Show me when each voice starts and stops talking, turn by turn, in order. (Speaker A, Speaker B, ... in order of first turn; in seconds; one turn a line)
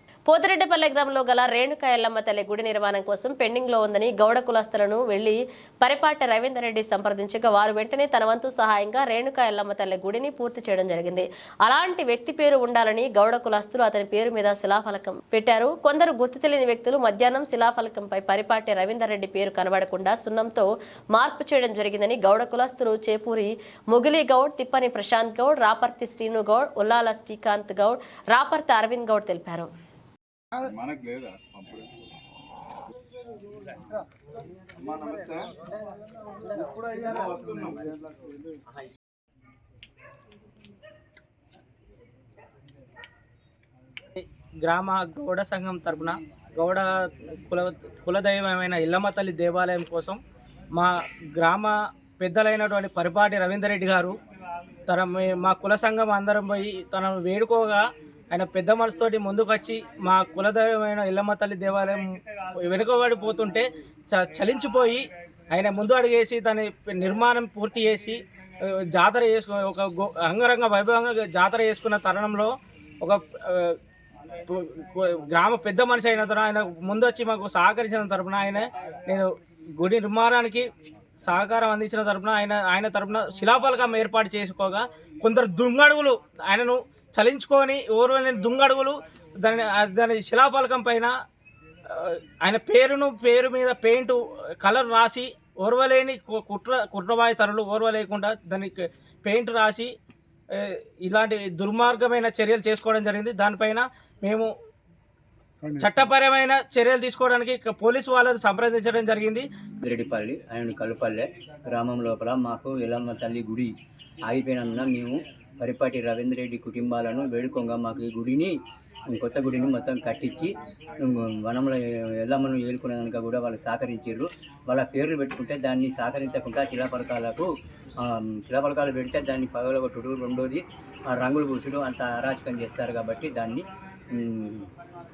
Speaker A: 0.3-29.7
Speaker B: 30.6-32.1
Speaker B: 34.8-35.6
Speaker B: 36.4-38.4
Speaker C: 44.1-50.2
Speaker C: 50.8-54.1
Speaker C: 54.9-62.0
Speaker C: 62.6-68.2
Speaker C: 68.8-72.5
Speaker C: 73.0-73.7
Speaker C: 74.5-80.7
Speaker C: 81.3-91.1
Speaker C: 91.9-99.9
Speaker C: 100.6-104.5
Speaker B: 105.6-105.9
Speaker C: 105.8-109.5
Speaker D: 109.8-113.7
Speaker D: 114.3-118.5
Speaker D: 119.1-120.5
Speaker D: 121.0-127.5
Speaker D: 128.0-134.7